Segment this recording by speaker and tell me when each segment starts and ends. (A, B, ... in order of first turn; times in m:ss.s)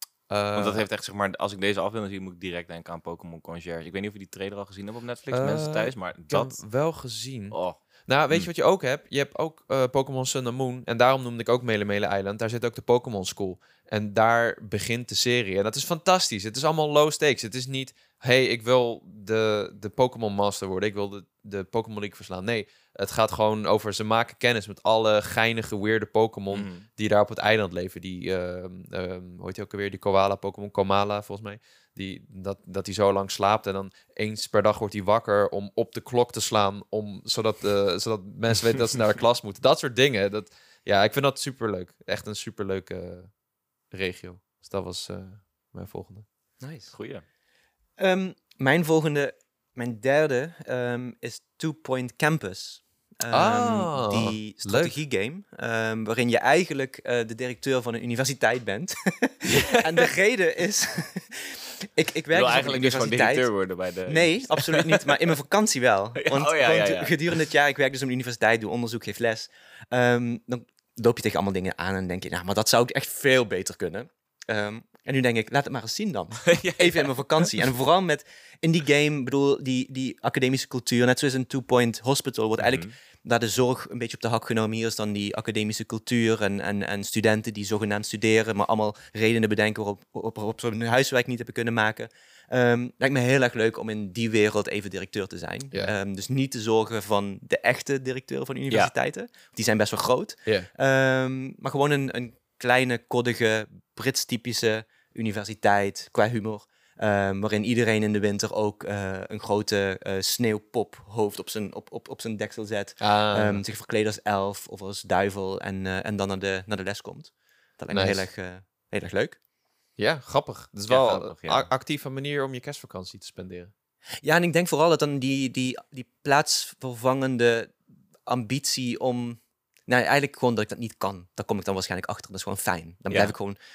0:00.3-0:00.8 A
0:00.6-0:06.6 B
0:05.3-0:43.4 A
0:07.5-0:07.8 B
0:26.5-0:26.9 B
0:43.9-0:46.3 A
0:46.6-0:46.9 C
0:46.9-0:47.2 B
0:48.0-1:03.5 C
0:53.3-0:55.0 A
1:02.3-1:05.1 B
1:04.1-1:59.4 C
1:06.2-1:07.4 B
1:16.5-1:17.5 B
1:22.6-1:22.9 B
1:53.0-1:53.6 A
1:57.9-1:58.3 A
2:00.0-2:03.7 A
2:00.9-2:01.7 B
2:04.2-2:07.8 C
2:08.3-2:13.6 C